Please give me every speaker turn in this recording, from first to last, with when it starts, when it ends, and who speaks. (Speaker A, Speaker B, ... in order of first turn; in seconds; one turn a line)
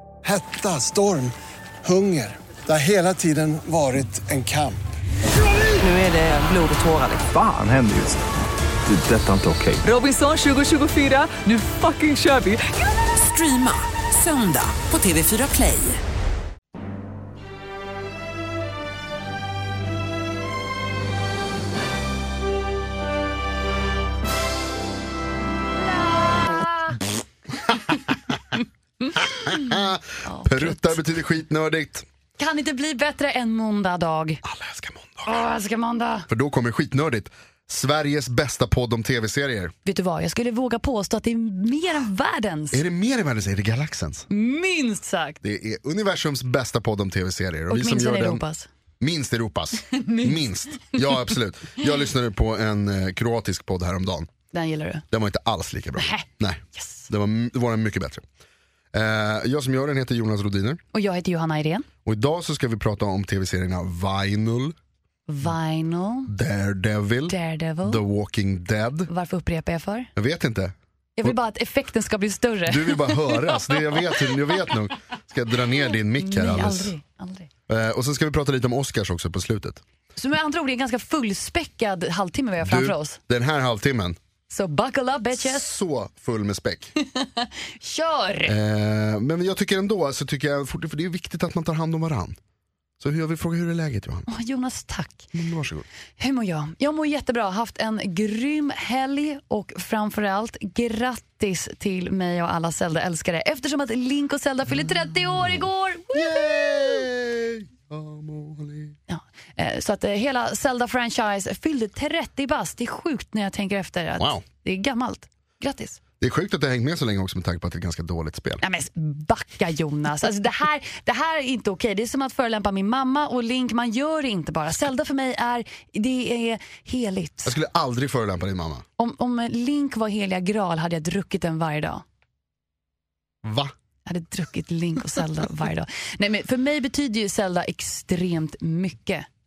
Speaker A: 0.2-4.8
Speaker B: 5.5-7.3
Speaker C: 7.3-8.2
Speaker C: 8.8-9.8
Speaker B: 9.8-16.0
Speaker D: 25.9-27.0
Speaker E: 27.6-28.1
Speaker D: 29.1-31.0
Speaker E: 29.2-32.0
Speaker D: 32.4-34.4
Speaker E: 34.4-35.3
Speaker D: 35.2-36.3
Speaker E: 36.3-39.7
Speaker D: 39.8-42.8
Speaker E: 42.7-44.3
Speaker D: 44.3-45.4
Speaker E: 45.4-48.4
Speaker D: 47.7-48.7
Speaker E: 49.0-54.3
Speaker D: 49.8-51.1
Speaker D: 54.5-55.0
Speaker E: 55.1-58.2
Speaker D: 56.0-57.1
Speaker E: 58.9-60.8
Speaker D: 60.9-61.9
Speaker E: 62.0-64.8
Speaker D: 65.3-66.3
Speaker E: 66.3-69.1
Speaker D: 67.3-68.0
Speaker D: 69.1-70.1
Speaker E: 70.2-71.3
Speaker D: 71.2-73.4
Speaker E: 72.7-76.9
Speaker D: 76.1-77.5
Speaker E: 77.7-79.8
Speaker D: 80.2-83.2
Speaker E: 82.6-84.2
Speaker D: 84.5-85.7
Speaker E: 85.3-86.9
Speaker D: 87.0-88.5
Speaker E: 88.4-92.4
Speaker E: 93.0-94.3
Speaker D: 94.3-95.3
Speaker E: 95.3-95.8
Speaker D: 96.2-107.1
Speaker E: 105.3-109.0
Speaker D: 109.1-116.0
Speaker E: 116.2-118.6
Speaker D: 118.6-127.6
Speaker E: 127.5-128.8
Speaker D: 129.0-132.0
Speaker E: 133.4-133.7
Speaker D: 134.1-139.3